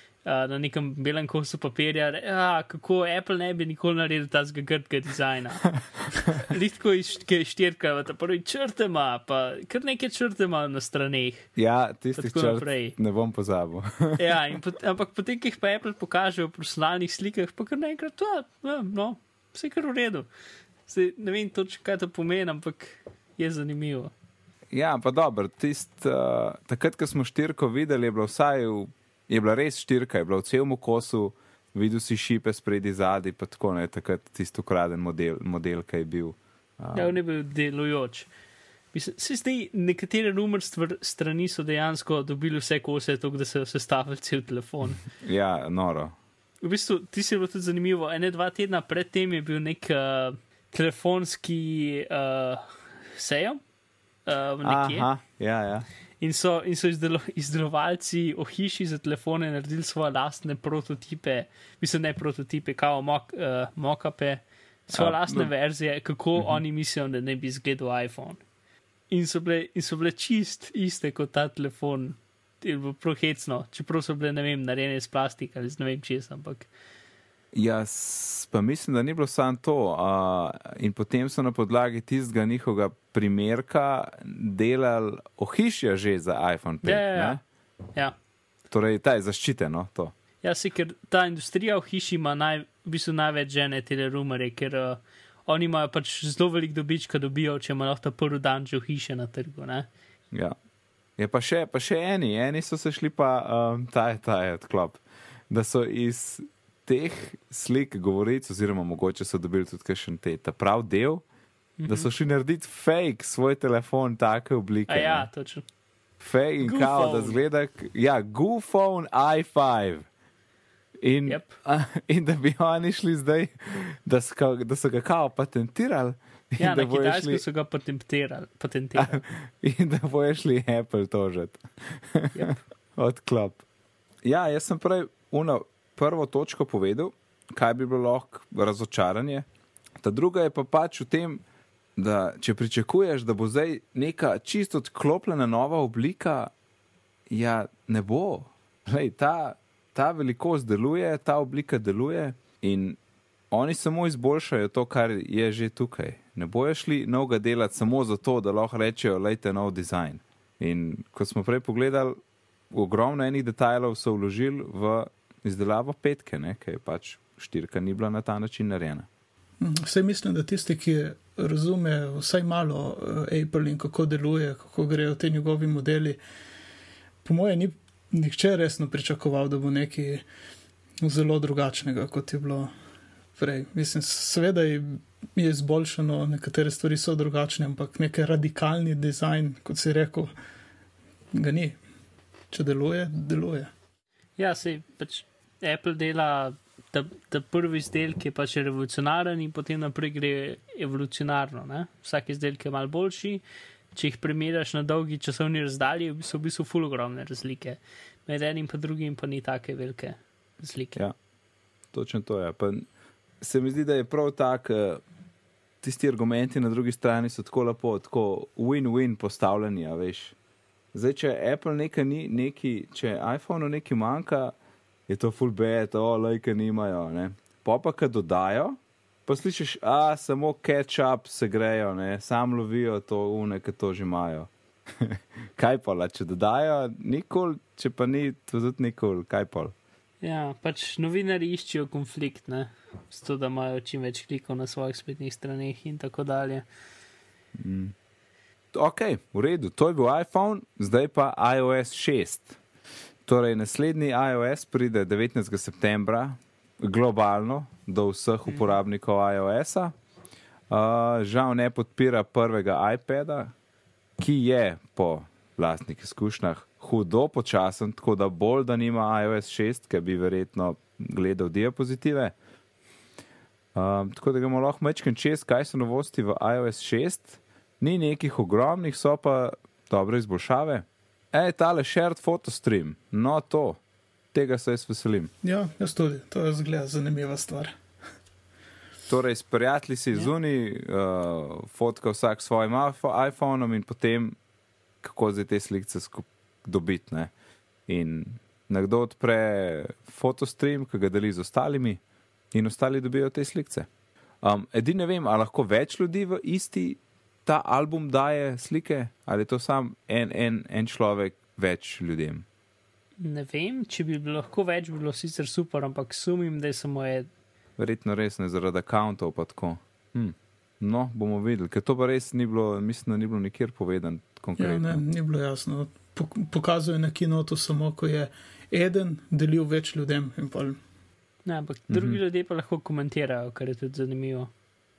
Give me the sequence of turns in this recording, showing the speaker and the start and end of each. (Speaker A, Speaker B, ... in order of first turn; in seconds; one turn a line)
Speaker A: 0.2-11.5
Speaker B: 11.6-14.2
Speaker A: 12.2-13.0
Speaker A: 14.2-20.3
Speaker A: 20.9-24.1
Speaker B: 24.7-37.1
Speaker A: 36.9-38.3
Speaker A: 38.9-45.0
Speaker B: 45.2-46.1
Speaker A: 46.6-53.6
Speaker A: 54.2-55.1
Speaker B: 54.6-55.9
Speaker A: 56.2-68.4
Speaker B: 64.9-65.5
Speaker A: 69.1-76.7
Speaker B: 77.5-87.4
Speaker A: 86.8-87.4
Speaker B: 88.7-90.1
Speaker A: 90.4-99.9
Speaker B: 101.2-111.2
Speaker A: 111.8-112.1
Speaker B: 111.9-115.3
Speaker A: 114.9-115.7
Speaker B: 116.2-120.0
Speaker A: 116.6-117.4
Speaker B: 121.0-127.4
Speaker A: 121.3-121.5
Speaker A: 126.6-129.2
Speaker B: 129.0-133.6
Speaker A: 132.3-132.6
Speaker B: 134.2-139.4
Speaker B: 140.0-141.4
Speaker B: 142.0-146.5
Speaker B: 147.3-153.0
Speaker B: 153.5-162.2
Speaker B: 162.7-169.1
Speaker C: 169.6-176.2
Speaker C: 177.2-180.2
Speaker C: 181.0-182.7
Speaker C: 183.4-190.3
Speaker C: 191.3-191.8
Speaker C: 192.5-193.7
Speaker A: 194.4-203.4
Speaker A: 203.9-211.0
Speaker B: 211.9-212.8
Speaker B: 213.4-215.0
Speaker B: 215.8-220.3
Speaker B: 220.9-224.5
Speaker B: 225.1-239.7
Speaker A: 240.2-246.7
Speaker B: 247.6-247.9
Speaker B: 248.7-252.6
Speaker B: 253.3-259.9
Speaker A: 258.5-258.7
Speaker B: 260.7-263.5
Speaker B: 264.2-272.4
Speaker B: 273.8-283.8
Speaker B: 284.3-285.3
Speaker C: 285.4-287.8
Speaker B: 289.1-294.4
Speaker B: 295.0-297.3
Speaker B: 297.9-302.0
Speaker B: 302.5-303.9
Speaker B: 304.4-312.4
Speaker A: 313.2-317.3
Speaker B: 317.8-325.0
Speaker C: 324.6-330.8
Speaker A: 331.4-334.5
Speaker B: 331.9-332.2